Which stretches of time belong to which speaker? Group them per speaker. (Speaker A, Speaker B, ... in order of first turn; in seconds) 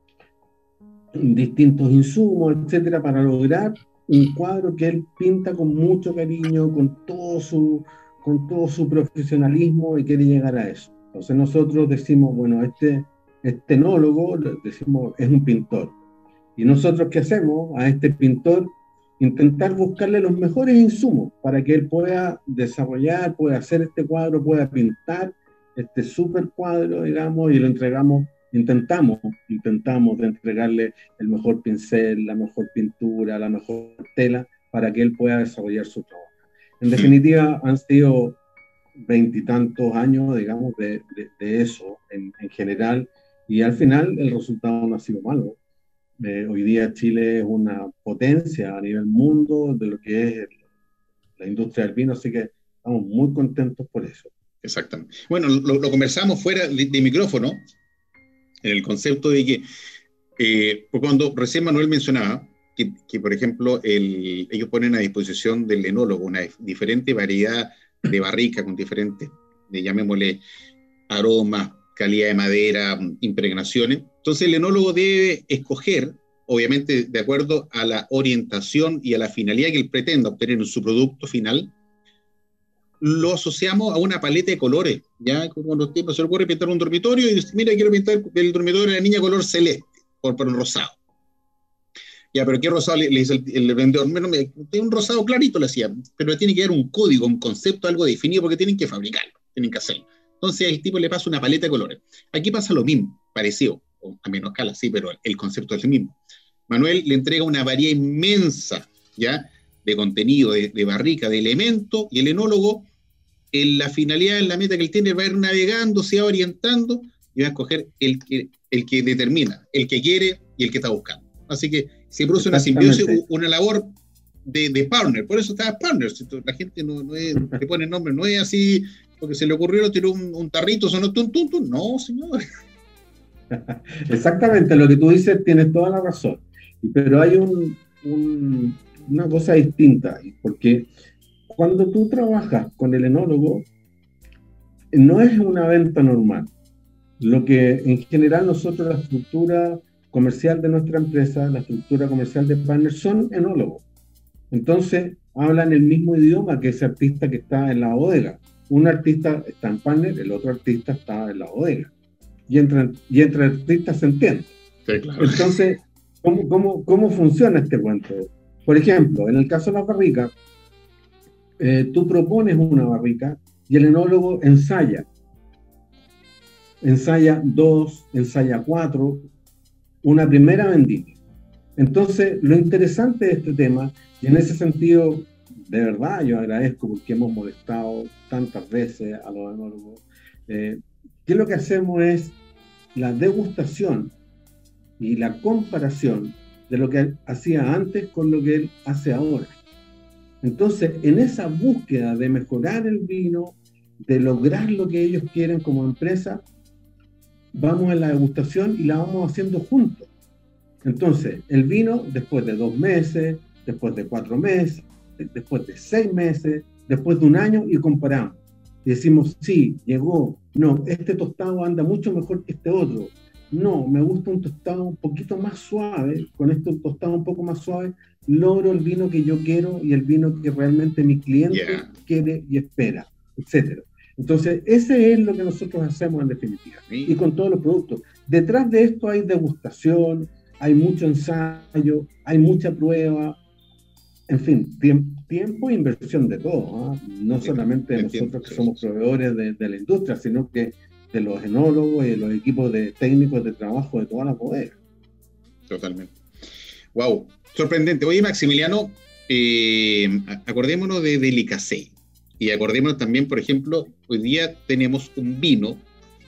Speaker A: 1.1-15.9, 16.6-38.4, 39.0-45.6, 46.2-50.5, 51.4-54.3, 122.4-123.2, 133.5-140.9, 141.5-143.7, 144.9-146.5, 147.2-153.8, 154.5-161.9, 162.5-164.5, 165.2-170.3, 171.6-175.1, 176.8-179.3, 180.0-181.2, 181.8-192.3, 192.9-194.1, 195.0-199.6, 200.4-206.4, 207.5-210.1, 210.8-243.4, 244.3-254.8
Speaker B: 54.6-57.6, 58.6-59.6, 60.4-70.4, 71.1-81.7, 83.0-91.0, 92.3-106.2, 106.7-112.9, 113.5-123.9, 124.5-132.4, 164.9-165.5, 231.5-231.9, 236.9-237.1, 247.4-248.8, 255.7-256.1, 256.9-265.8